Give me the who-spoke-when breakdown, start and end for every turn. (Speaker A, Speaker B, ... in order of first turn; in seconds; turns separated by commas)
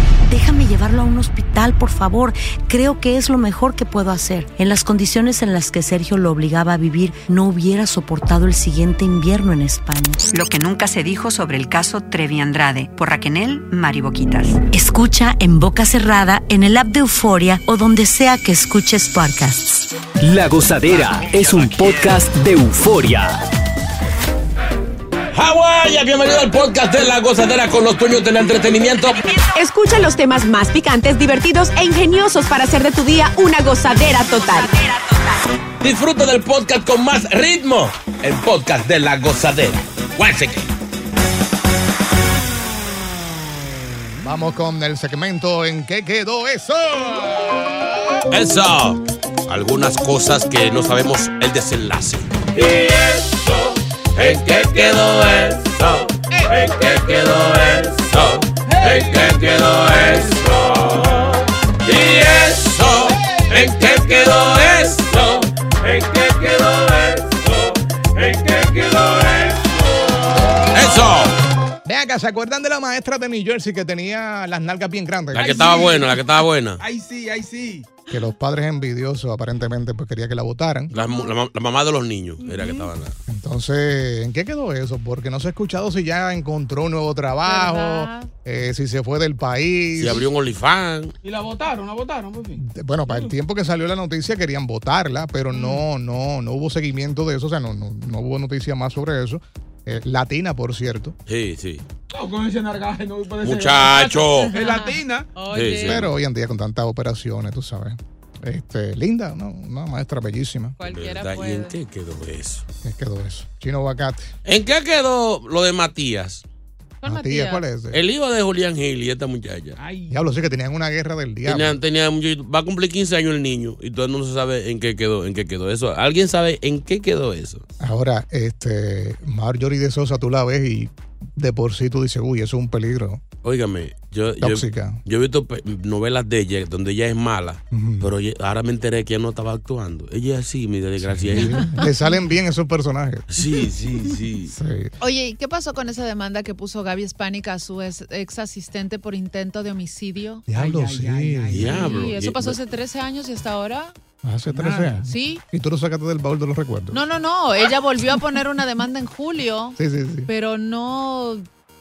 Speaker A: 0.3-10.3, Speaker B: 10.2-14.6, Speaker A: 14.7-19.9, Speaker C: 20.2-23.4, Speaker D: 25.3-29.2, Speaker E: 29.5-34.8, Speaker D: 35.8-40.7, Speaker F: 44.2-48.2, Speaker D: 48.3-69.8, Speaker G: 58.6-59.4, Speaker D: 70.7-71.3, Speaker F: 71.8-75.7, Speaker D: 75.3-76.8, Speaker G: 75.3-76.2, Speaker G: 76.8-77.9, Speaker F: 78.1-80.9, Speaker D: 80.9-83.2, Speaker G: 82.4-82.8, Speaker F: 83.3-90.3, Speaker H: 87.4-88.3, Speaker D: 89.9-91.1, Speaker G: 91.2-93.3, Speaker F: 92.5-101.1, Speaker G: 95.5-95.8, Speaker D: 101.3-101.8, Speaker G: 102.1-105.3, Speaker D: 103.4-104.5, Speaker H: 103.9-106.0, Speaker D: 105.5-106.1, Speaker F: 105.8-110.8, Speaker H: 110.8-111.8, Speaker D: 110.8-112.6, Speaker F: 112.8-114.3, Speaker D: 114.4-116.4, Speaker H: 117.0-117.6, Speaker F: 117.0-118.0, Speaker D: 117.9-119.8, Speaker G: 119.8-120.5, Speaker F: 120.1-121.8, Speaker D: 121.5-127.6, Speaker F: 127.8-133.2, Speaker D: 133.4-141.6, Speaker F: 134.4-135.0, Speaker F: 137.7-138.1, Speaker F: 141.0-143.2, Speaker H: 141.4-141.9, Speaker D: 143.3-144.5, Speaker F: 144.5-144.9, Speaker H: 145.0-150.4, Speaker F: 150.5-151.7, Speaker G: 150.5-152.1, Speaker D: 151.5-152.6, Speaker H: 151.7-153.9, Speaker F: 154.2-157.0, Speaker G: 154.5-155.1, Speaker H: 155.1-155.4, Speaker H: 156.9-161.5, Speaker F: 159.8-160.3